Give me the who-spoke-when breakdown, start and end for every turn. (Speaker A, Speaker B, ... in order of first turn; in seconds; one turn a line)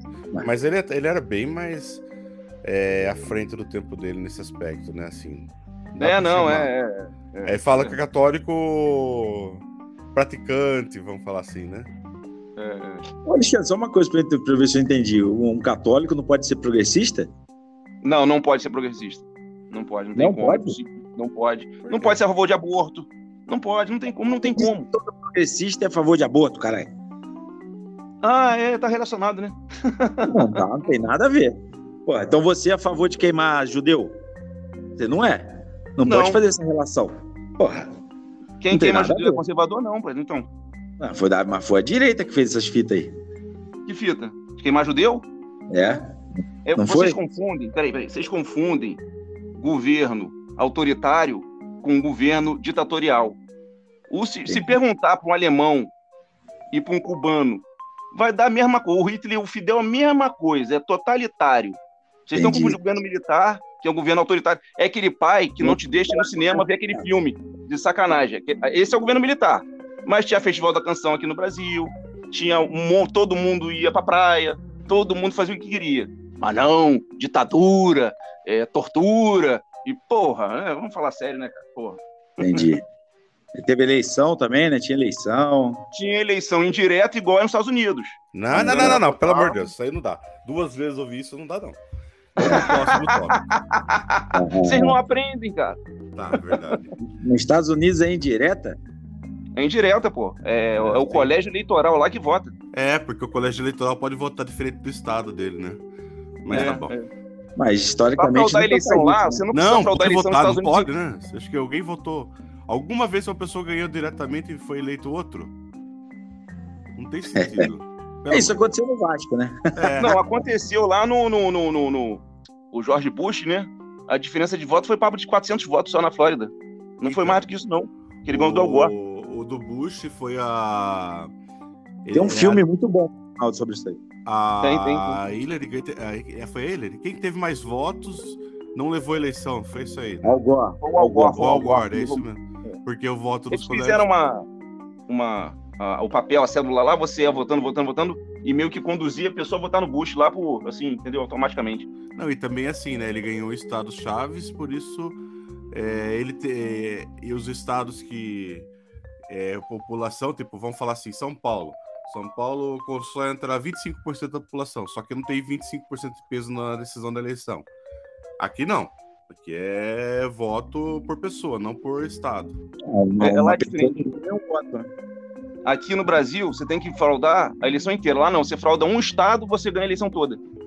Speaker A: 0.4-2.0
Speaker A: 2.6-6.7
Speaker B: 6.0-8.0
Speaker A: 7.5-9.6
Speaker A: 10.2-11.9
Speaker B: 12.6-13.1
Speaker C: 13.2-17.3
Speaker B: 18.0-24.9
Speaker C: 20.2-20.8
Speaker A: 21.9-22.2
Speaker C: 24.4-26.9
Speaker B: 28.2-30.6
Speaker C: 30.3-34.2
Speaker C: 35.0-37.9
Speaker B: 36.0-36.4
Speaker B: 38.6-40.5
Speaker C: 38.7-39.4
Speaker C: 41.0-43.1
Speaker B: 43.9-45.3
Speaker C: 45.7-46.1
Speaker B: 46.7-49.0
Speaker C: 46.8-47.2
Speaker B: 49.6-53.4
Speaker B: 54.1-55.9
Speaker C: 54.5-54.8
Speaker B: 56.7-82.0
Speaker C: 62.3-62.8
Speaker C: 65.6-67.1
Speaker C: 82.4-82.8
Speaker C: 83.5-85.9
Speaker B: 85.9-89.6
Speaker A: 88.3-91.8
Speaker C: 88.5-89.0
Speaker A: 92.4-93.4
Speaker B: 92.4-95.8
Speaker C: 92.4-92.8
Speaker C: 94.3-95.0
Speaker A: 96.2-96.9
Speaker C: 97.1-98.8
Speaker B: 99.6-102.5
Speaker A: 100.8-101.3
Speaker A: 102.7-105.8
Speaker A: 106.4-106.9
Speaker B: 106.5-107.1
Speaker C: 107.6-109.4
Speaker B: 108.2-110.9
Speaker A: 109.5-115.5
Speaker A: 117.0-118.6
Speaker C: 117.4-117.7
Speaker C: 118.3-120.2
Speaker A: 119.8-120.2
Speaker B: 120.0-128.9
Speaker A: 127.1-127.5
Speaker A: 128.3-131.3
Speaker A: 132.0-132.7
Speaker C: 132.1-134.0
Speaker A: 134.2-140.4
Speaker B: 134.6-135.2
Speaker C: 140.2-141.4
Speaker B: 140.8-142.7
Speaker A: 141.3-144.1
Speaker B: 143.5-144.5
Speaker B: 145.1-151.9
Speaker A: 152.2-155.2
Speaker A: 155.7-158.7
Speaker A: 159.3-167.7
Speaker A: 168.4-172.6
Speaker C: 172.8-174.9
Speaker B: 173.2-174.0
Speaker B: 175.7-180.4